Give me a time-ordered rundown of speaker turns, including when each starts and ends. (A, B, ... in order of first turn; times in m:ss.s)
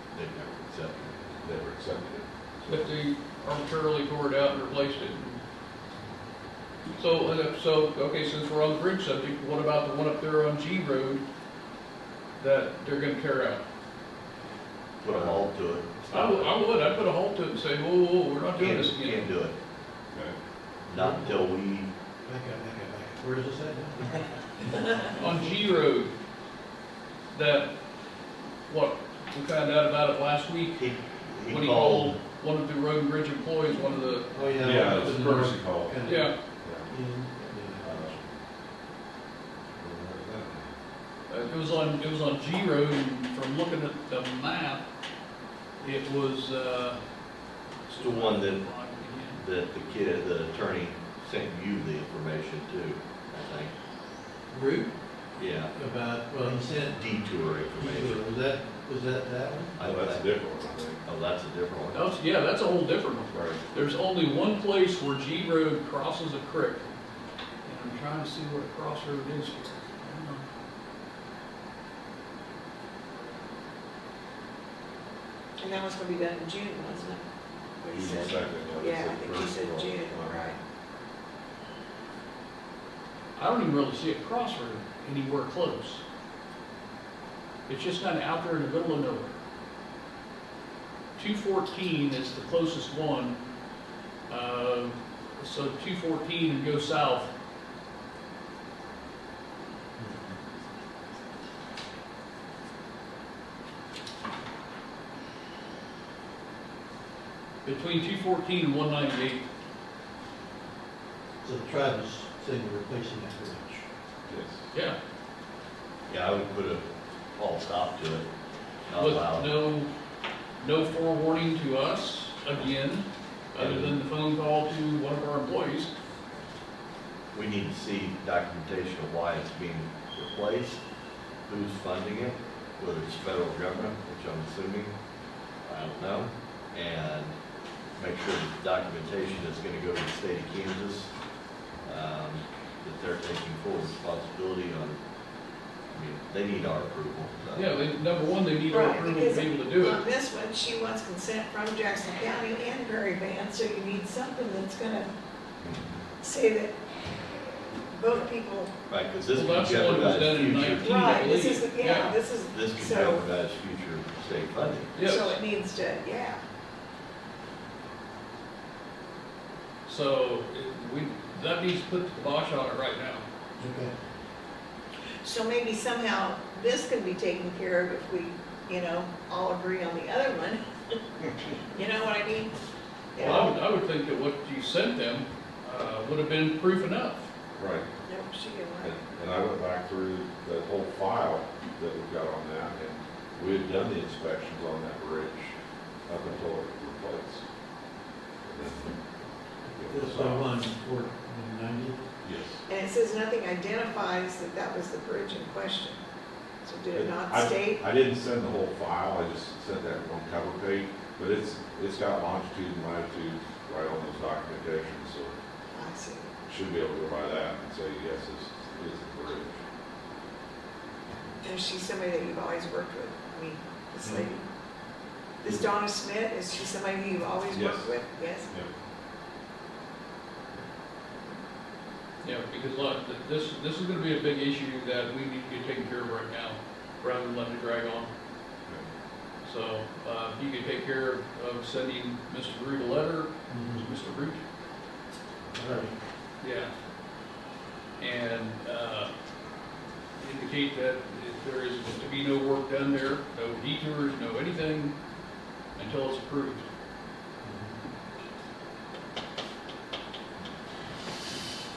0:00.1-0:01.1 A
0:01.2-0:02.9 B
0:02.7-0:05.4 C
0:07.0-0:11.2 C
0:12.4-0:13.6 C
0:15.0-0:16.6 A
0:16.1-0:19.2 C
0:18.6-0:19.5 A
0:20.1-0:20.4 B
0:20.9-0:21.9 A
0:20.9-0:21.5 D
0:22.2-0:25.3 D
0:25.2-0:26.1 C
0:27.3-0:27.7 C
0:28.7-0:30.9 C
0:30.8-0:32.2 A
0:31.4-0:34.3 C
0:34.3-0:36.3 D
0:34.6-0:36.9 B
0:36.0-0:36.3 C
0:36.9-0:38.1 D
0:37.8-0:38.3 B
0:39.7-0:40.7 B
0:41.3-0:44.8 C
0:45.8-0:47.0 C
0:47.9-0:49.4 C
0:48.0-0:48.7 A
0:49.3-0:53.7 A
0:54.5-0:54.9 D
0:55.4-0:55.7 A
0:55.8-0:57.0 D
0:56.9-0:58.2 A
0:57.8-0:59.7 D
0:59.8-1:00.3 A
0:59.8-1:01.0 B
1:01.0-1:02.1 A
1:01.9-1:06.9 C
1:03.3-1:03.6 B
1:07.6-1:10.4 C
1:15.6-1:17.2 E
1:17.8-1:20.6 E
1:17.9-1:20.4 B
1:23.4-1:26.0 C
1:27.7-1:29.4 C
1:31.2-1:33.4 C
1:34.3-1:37.3 C
1:40.0-1:40.4 D
1:47.6-1:49.4 C
1:51.4-1:53.8 D
1:54.3-1:54.7 B
1:56.1-1:58.3 A
1:58.9-1:59.5 A
1:59.0-1:59.9 C
2:00.6-2:05.9 C
2:07.3-2:10.8 A
2:11.4-2:14.9 A
2:15.6-2:17.3 A
2:18.0-2:21.1 A
2:21.8-2:25.0 A
2:25.9-2:27.8 A
2:27.5-2:30.0 C
2:28.7-2:35.1 E
2:36.2-2:36.8 E
2:37.9-2:38.8 E
2:38.9-2:41.1 A
2:39.3-2:42.2 C
2:40.8-2:43.3 E
2:42.4-2:45.0 A
2:44.9-2:45.4 C
2:45.0-2:46.4 E
2:49.8-2:53.2 C
2:53.6-2:53.9 D
2:55.2-3:01.0 E
3:01.7-3:02.5 E
3:03.1-3:03.6 E
3:03.2-3:07.3 C
3:03.2-3:03.5 B
3:07.6-3:07.9 B
3:08.0-3:09.0 E
3:08.8-3:15.5 B
3:16.1-3:17.4 B
3:18.4-3:19.0 B
3:19.7-3:20.5 B
3:19.8-3:22.1 D
3:22.2-3:22.6 B
3:22.7-3:26.0 E
3:26.6-3:27.8 E
3:26.9-3:35.3 B
3:35.7-3:36.3 E
3:36.4-3:39.6 B
3:41.4-3:44.4 E
3:45.4-3:48.5 E
3:47.5-3:48.0 B
3:52.2-3:58.1 C
3:59.4-4:04.4 C
4:03.5-4:03.9 D
4:05.5-4:05.9 D
4:06.4-4:06.7 C
4:08.0-4:09.1 C
4:10.2-4:14.9 C
4:15.8-4:16.6 C
4:17.4-4:17.8 D